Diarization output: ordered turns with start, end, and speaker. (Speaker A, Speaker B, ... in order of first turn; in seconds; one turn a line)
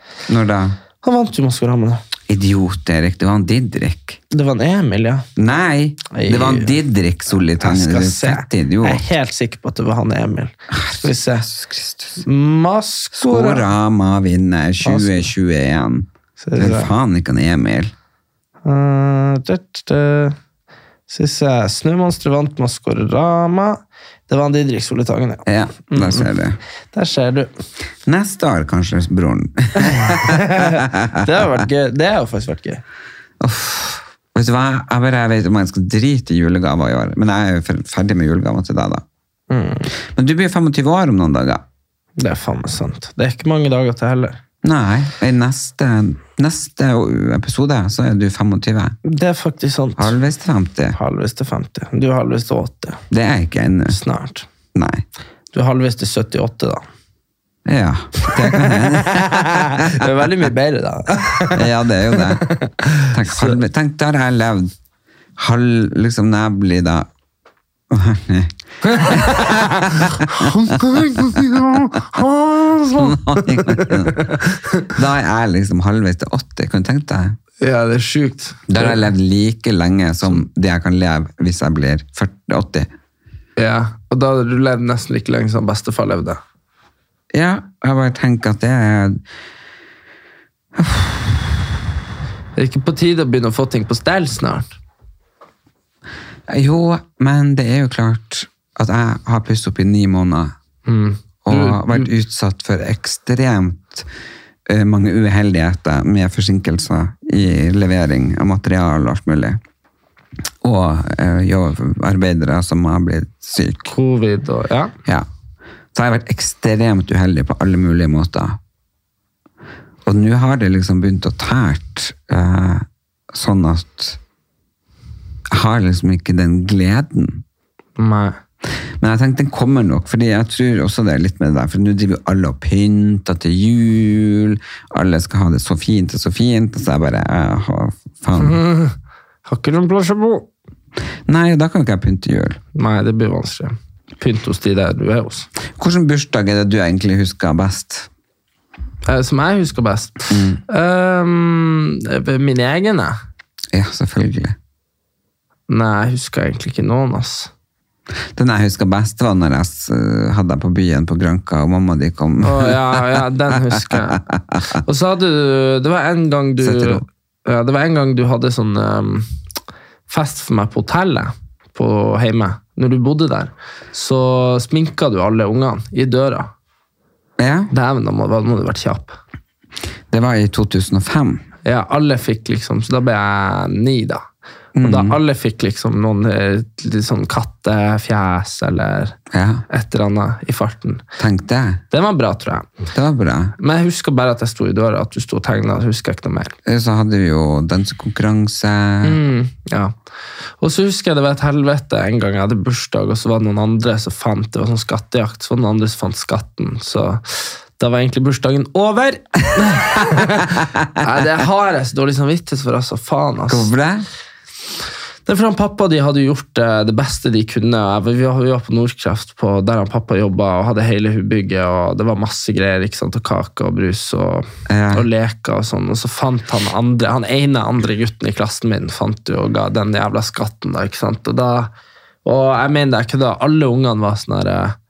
Speaker A: 0.3-0.8
Speaker B: 1.0-2.0
Speaker A: 2.3-4.2
Speaker B: 4.3-5.3
Speaker A: 5.4-9.0
Speaker B: 6.1-6.8
Speaker B: 7.6-11.5
Speaker A: 10.7-12.2
Speaker B: 12.2-13.7
Speaker A: 13.1-17.9
Speaker B: 14.8-15.3
Speaker B: 16.4-16.9
Speaker B: 18.6-20.4
Speaker B: 21.1-26.3
Speaker A: 25.5-26.6
Speaker B: 26.9-27.5
Speaker A: 28.1-31.3
Speaker B: 30.0-32.8
Speaker A: 33.4-39.0
Speaker B: 39.5-39.9
Speaker A: 40.1-41.6
Speaker B: 42.2-44.4
Speaker A: 44.6-49.0
Speaker B: 49.0-50.1
Speaker A: 50.0-51.0
Speaker B: 51.0-53.0
Speaker A: 53.1-54.0
Speaker B: 53.9-54.5
Speaker A: 54.7-55.0
Speaker B: 55.5-56.8
Speaker A: 57.6-59.9
Speaker B: 58.2-63.6
Speaker A: 61.5-62.5
Speaker A: 63.1-64.7
Speaker A: 65.4-67.1
Speaker A: 67.9-71.6
Speaker B: 68.8-74.9
Speaker A: 72.9-77.4
Speaker B: 77.6-79.0
Speaker A: 78.7-82.9
Speaker B: 83.6-86.4
Speaker A: 87.3-89.2
Speaker A: 90.8-91.4
Speaker B: 92.6-94.7
Speaker A: 96.5-100.5
Speaker B: 100.9-102.1
Speaker A: 101.5-104.1
Speaker A: 104.7-109.6
Speaker A: 110.6-113.9
Speaker B: 113.9-114.9
Speaker A: 115.9-118.6
Speaker A: 120.0-124.2
Speaker A: 125.5-127.4
Speaker B: 128.0-128.4
Speaker A: 129.0-138.6
Speaker B: 138.4-138.9
Speaker B: 139.5-140.5
Speaker A: 141.3-142.6
Speaker B: 142.8-145.5
Speaker A: 145.8-148.1
Speaker B: 149.1-153.2
Speaker A: 150.3-150.6
Speaker A: 153.7-154.6
Speaker B: 155.7-157.5
Speaker A: 158.3-164.6
Speaker B: 162.4-164.2
Speaker B: 164.8-169.3
Speaker A: 166.6-167.0
Speaker B: 170.1-176.5
Speaker A: 177.4-177.7
Speaker B: 177.7-179.2
Speaker A: 180.1-181.4
Speaker B: 181.6-184.2
Speaker A: 184.8-185.2
Speaker B: 184.8-189.2
Speaker A: 189.3-189.6
Speaker B: 189.7-191.0
Speaker A: 191.2-191.8
Speaker B: 191.9-192.7
Speaker A: 192.9-193.5
Speaker B: 193.6-196.6
Speaker A: 196.7-199.2
Speaker B: 199.0-199.9
Speaker B: 200.6-213.7
Speaker A: 213.5-214.1
Speaker B: 215.3-231.7
Speaker A: 224.7-225.1
Speaker B: 232.2-234.8